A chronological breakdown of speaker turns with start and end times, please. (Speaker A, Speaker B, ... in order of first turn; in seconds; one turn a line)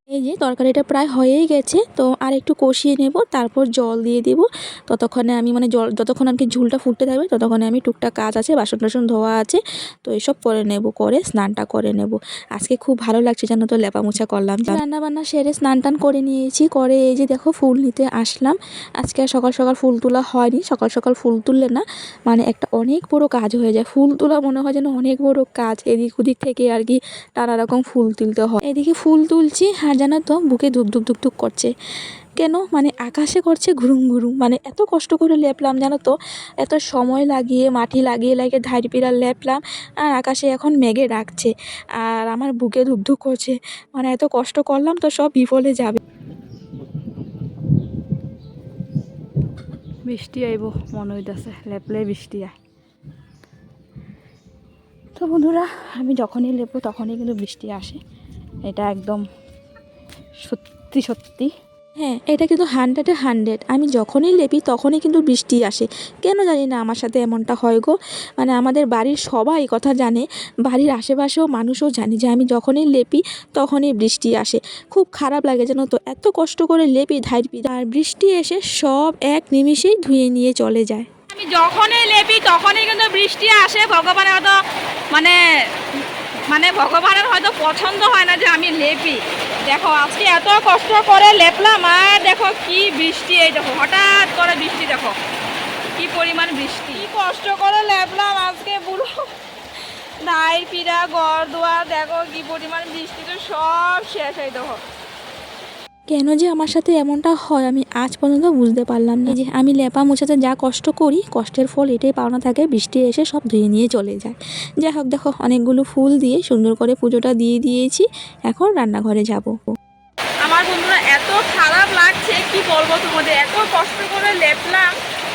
Speaker A: 0.1-31.7
Speaker A: 32.4-46.0
Speaker B: 50.1-52.5
Speaker B: 55.2-58.0
Speaker B: 58.7-59.2
Speaker B: 60.4-61.5
Speaker A: 62.0-81.1
Speaker B: 81.3-84.6
Speaker B: 85.1-95.2
Speaker B: 96.0-99.3
Speaker B: 100.2-104.8
Speaker A: 106.1-119.5
Speaker B: 120.4-124.9